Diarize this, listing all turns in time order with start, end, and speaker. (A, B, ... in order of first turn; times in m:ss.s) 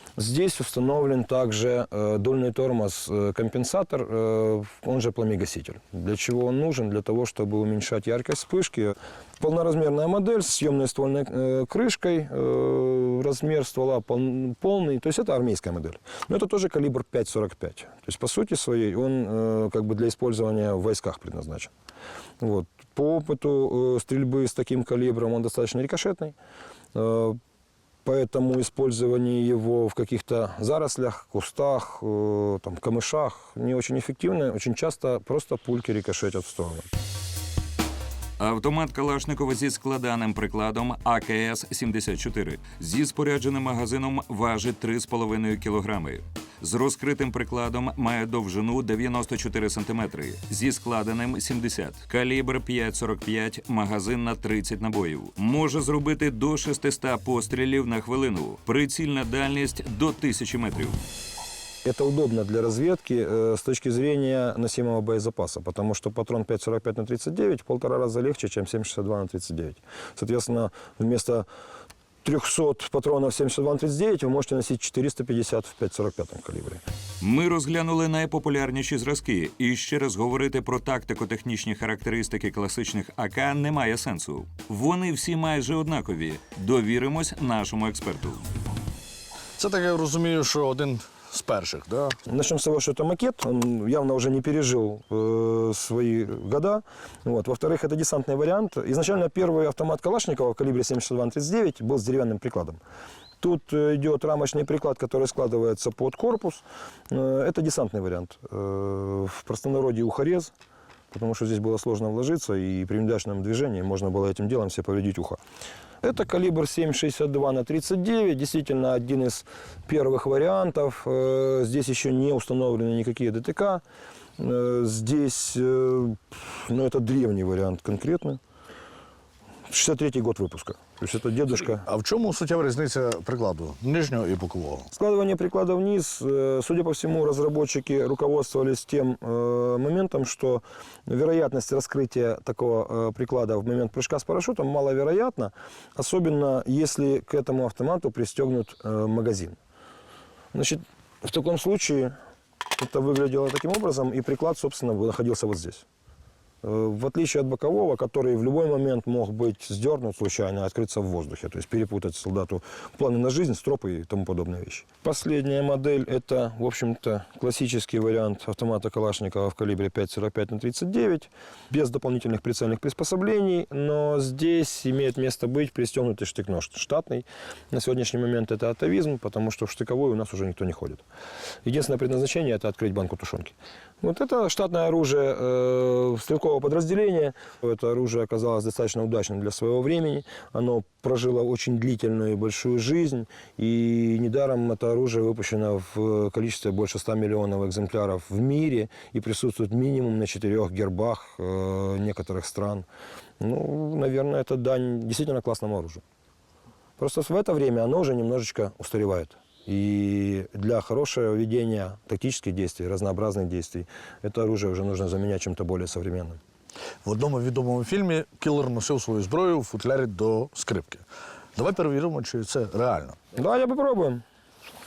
0:00.2-0:21.7 A
0:22.4-0:26.3 A
0:26.9-0:27.4 A
0:28.0-0:36.9 A
0:38.4-1:01.0 B
1:01.8-1:11.4 A
1:12.2-1:16.8 A
1:17.2-1:28.4 B
1:29.6-1:32.2 C
1:32.3-1:42.8 A
1:43.4-1:50.5 A
1:51.1-1:55.4 A
1:56.0-2:03.8 A
2:04.4-2:08.4 A
2:09.7-2:11.8 A
2:11.8-2:14.9 C
2:14.9-2:29.6 A
2:30.5-2:32.2 A
2:32.8-2:35.8 A
2:36.6-3:01.0 A
3:01.6-3:22.8 A
3:23.4-3:26.0 A
3:27.0-3:36.4 A
3:37.0-3:41.0 C
3:41.6-3:43.2 C
3:43.3-3:44.2 A